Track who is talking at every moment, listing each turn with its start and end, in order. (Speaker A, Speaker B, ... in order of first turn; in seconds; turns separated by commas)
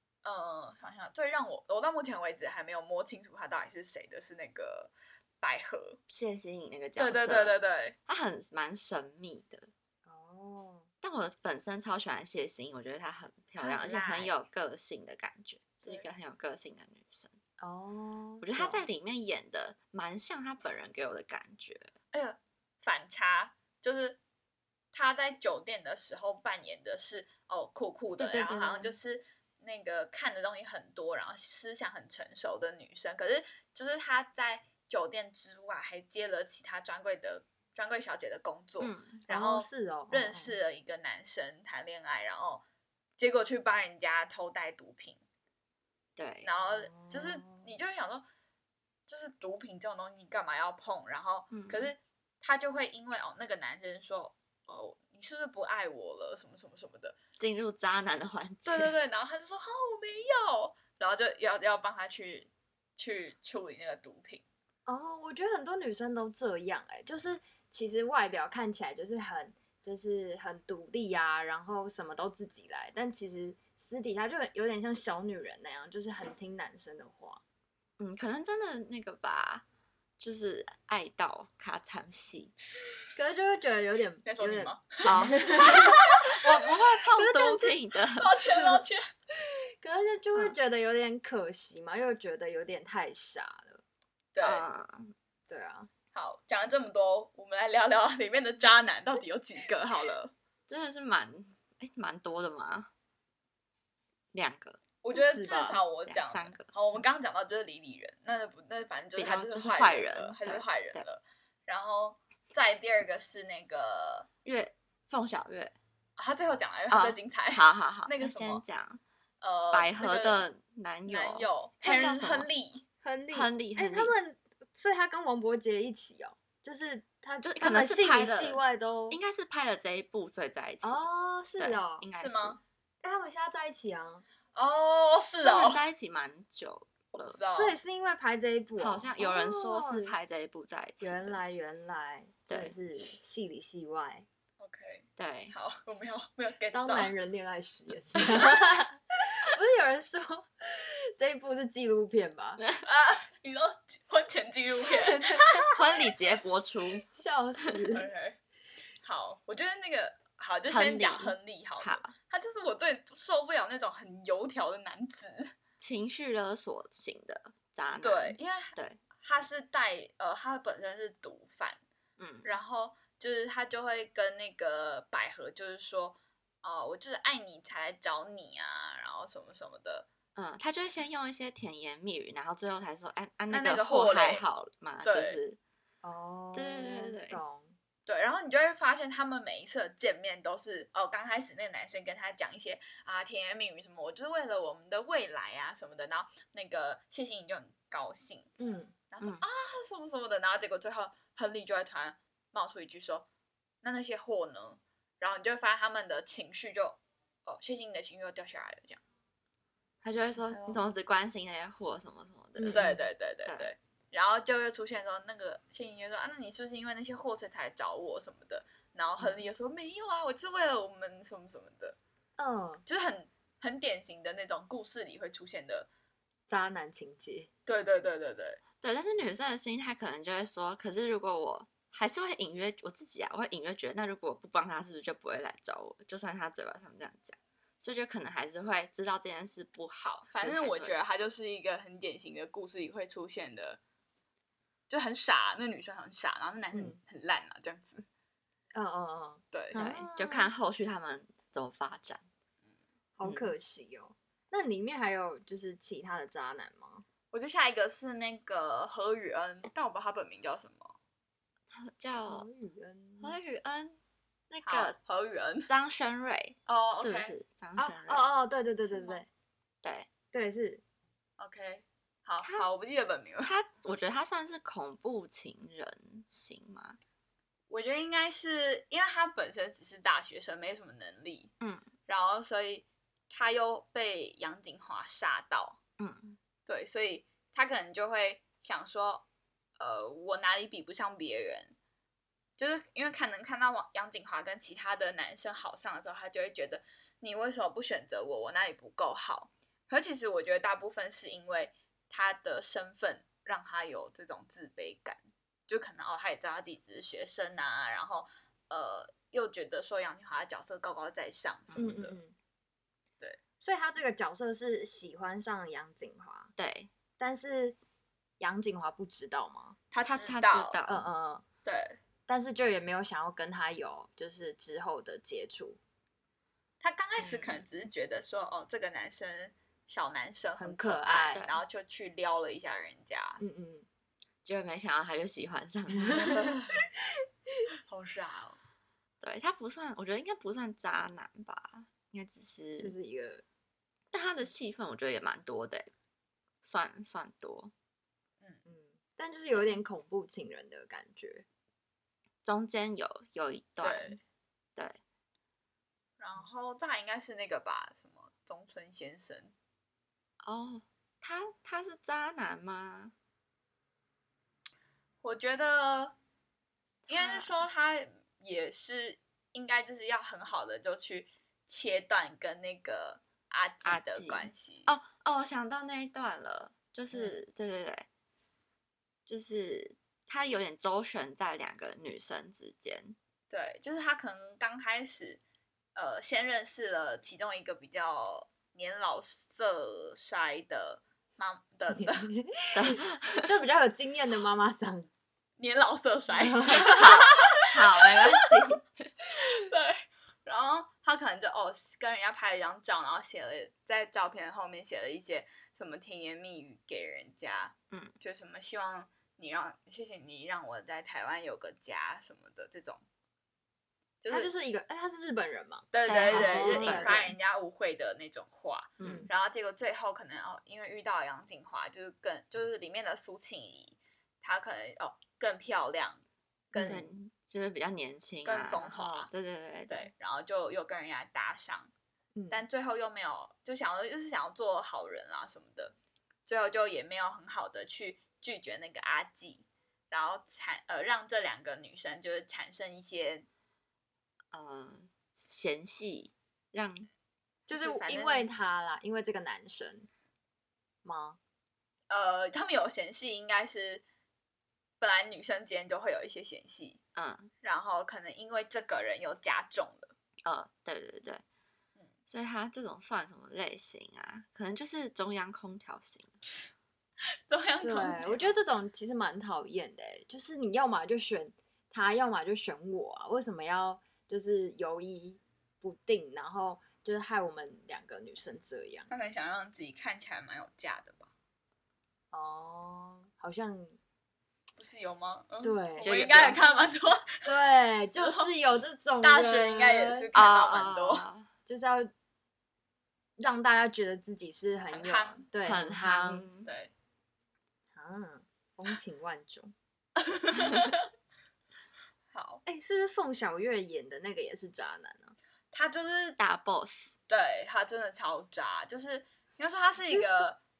Speaker A: 0.2-6.0, Speaker B: 6.1-9.7, Speaker A: 7.0-8.0, Speaker C: 10.1-10.9, Speaker B: 11.0-17.3, Speaker C: 13.6-14.3, Speaker C: 17.6-18.8, Speaker B: 18.4-21.9, Speaker A: 22.1-24.2, Speaker A: 24.9-42.6, Speaker B: 28.2-28.9, Speaker B: 38.8-39.2, Speaker C: 39.3-40.5, Speaker A: 43.2-45.2, Speaker B: 46.1-46.5, Speaker A: 46.4-48.2, Speaker C: 46.6-47.6, Speaker A: 49.1-57.1, Speaker B: 51.5-51.9, Speaker B: 57.4-59.0, Speaker A: 58.6-64.4, Speaker C: 64.9-77.4, Speaker B: 78.0-79.6, Speaker B: 80.2-82.5, Speaker C: 83.2-86.0, Speaker A: 84.2-86.3, Speaker B: 85.0-88.3, Speaker C: 87.1-87.8, Speaker A: 88.2-89.0, Speaker C: 89.4-93.8, Speaker A: 94.3-94.7, Speaker B: 94.4-95.1, Speaker C: 95.5-95.9, Speaker A: 96.1-100.3, Speaker B: 100.7-102.9, Speaker B: 104.3-106.7, Speaker A: 105.0-114.3, Speaker C: 105.1-105.8, Speaker B: 109.2-111.0, Speaker B: 114.4-115.7, Speaker A: 116.2-118.6, Speaker B: 116.9-119.0, Speaker A: 119.4-120.4, Speaker B: 119.7-122.5, Speaker A: 121.1-122.8, Speaker C: 123.0-129.2, Speaker B: 123.3-124.1, Speaker B: 127.4-131.0, Speaker C: 130.8-132.0, Speaker B: 131.6-132.6, Speaker A: 132.2-132.6, Speaker C: 133.0-134.2, Speaker A: 134.5-135.8, Speaker B: 135.4-137.4, Speaker A: 137.1-137.8, Speaker C: 137.5-140.1, Speaker B: 138.8-141.4, Speaker C: 141.0-144.2, Speaker B: 142.5-142.7, Speaker A: 144.6-147.1, Speaker B: 145.2-145.5, Speaker C: 146.7-152.6, Speaker A: 152.8-155.7, Speaker C: 155.1-155.6, Speaker B: 155.7-157.0, Speaker C: 157.1-158.1, Speaker A: 157.9-158.4, Speaker A: 159.0-165.5, Speaker B: 160.7-162.1, Speaker B: 165.8-169.0, Speaker A: 168.0-171.8, Speaker B: 172.2-172.5, Speaker A: 172.4-180.1, Speaker B: 180.3-185.6, Speaker A: 183.5-184.4, Speaker A: 185.0-185.4, Speaker C: 186.0-187.7, Speaker B: 186.5-187.4, Speaker A: 188.1-198.5, Speaker C: 198.6-198.9, Speaker A: 199.1-203.2, Speaker A: 203.8-209.0, Speaker B: 210.0-213.7, Speaker A: 210.5-210.8, Speaker C: 212.6-213.0, Speaker A: 212.7-222.0, Speaker C: 222.4-222.8, Speaker A: 222.8-225.9, Speaker C: 226.5-227.5, Speaker A: 227.7-228.6, Speaker B: 228.8-241.0, Speaker A: 240.0-243.8, Speaker A: 244.9-248.0, Speaker C: 246.7-247.0, Speaker C: 248.7-250.5, Speaker A: 249.5-249.8, Speaker B: 249.7-252.2, Speaker C: 253.2-257.0, Speaker B: 253.2-253.5, Speaker A: 257.3-260.9, Speaker B: 261.7-262.5, Speaker C: 262.3-263.4, Speaker B: 263.2-264.0, Speaker B: 264.5-264.9, Speaker A: 264.6-265.7, Speaker B: 265.6-268.3, Speaker A: 266.7-267.3, Speaker C: 267.8-269.3, Speaker B: 269.8-270.1, Speaker C: 270.3-270.8, Speaker A: 271.4-273.5, Speaker B: 272.4-272.7, Speaker B: 273.4-277.0, Speaker A: 277.7-281.5, Speaker B: 281.6-281.9, Speaker A: 282.1-285.8, Speaker B: 286.0-286.4, Speaker A: 286.6-289.2, Speaker A: 289.8-291.7, Speaker A: 292.6-312.1, Speaker B: 311.7-312.0, Speaker C: 311.8-312.3, Speaker C: 313.6-316.5, Speaker B: 316.6-316.9, Speaker C: 317.2-317.8, Speaker C: 318.4-319.8, Speaker A: 319.9-320.8, Speaker B: 320.0-321.1, Speaker C: 320.9-321.4, Speaker A: 321.6-322.0, Speaker C: 322.3-325.8, Speaker A: 326.8-333.4, Speaker C: 327.2-327.6, Speaker C: 330.6-331.4, Speaker B: 331.3-331.6, Speaker C: 333.4-333.9, Speaker B: 334.4-336.5, Speaker A: 336.1-336.8, Speaker A: 337.9-338.6, Speaker B: 339.2-342.9, Speaker C: 342.8-343.4, Speaker B: 344.1-345.9, Speaker B: 346.6-347.7, Speaker C: 348.6-351.4, Speaker B: 349.5-349.8, Speaker B: 352.4-354.1, Speaker A: 353.8-354.2, Speaker A: 356.2-359.5, Speaker B: 360.4-363.1, Speaker A: 365.2-366.1, Speaker B: 367.1-367.5, Speaker A: 367.1-374.9, Speaker B: 373.8-378.1, Speaker B: 379.2-383.2, Speaker A: 383.5-385.4, Speaker A: 385.9-392.3, Speaker C: 391.9-395.1, Speaker B: 392.7-393.5, Speaker A: 395.6-398.6, Speaker C: 396.3-397.0, Speaker B: 396.9-399.1, Speaker A: 399.3-413.0, Speaker A: 414.2-414.5, Speaker C: 414.3-417.3, Speaker A: 415.9-426.2, Speaker B: 416.1-417.3, Speaker B: 419.0-419.3, Speaker C: 419.0-419.3, Speaker C: 426.7-427.0, Speaker B: 426.8-430.1, Speaker A: 428.4-429.3, Speaker A: 429.9-431.9, Speaker C: 432.4-432.6, Speaker A: 432.5-435.9, Speaker A: 436.5-443.5, Speaker B: 444.5-447.1, Speaker A: 447.7-448.5, Speaker C: 447.7-450.1, Speaker C: 451.0-451.4, Speaker A: 452.1-454.0, Speaker A: 455.0-457.0, Speaker B: 457.1-457.5, Speaker A: 457.6-460.1, Speaker B: 460.4-461.4, Speaker B: 462.3-466.3, Speaker A: 467.5-468.5, Speaker C: 467.8-479.1, Speaker A: 479.1-481.3, Speaker C: 482.3-484.0, Speaker A: 484.8-487.5, Speaker C: 485.6-486.6, Speaker B: 486.0-486.6, Speaker C: 487.4-490.3, Speaker A: 488.2-488.5, Speaker A: 489.2-491.2, Speaker B: 490.3-491.5, Speaker C: 491.6-492.1, Speaker C: 493.4-496.4, Speaker A: 494.9-495.4, Speaker B: 495.6-496.7, Speaker A: 496.6-496.9, Speaker C: 497.9-499.7, Speaker A: 500.2-501.0, Speaker B: 500.6-500.9, Speaker A: 502.3-502.6, Speaker C: 502.6-505.3, Speaker A: 505.7-506.4, Speaker B: 506.4-507.1, Speaker A: 507.3-510.6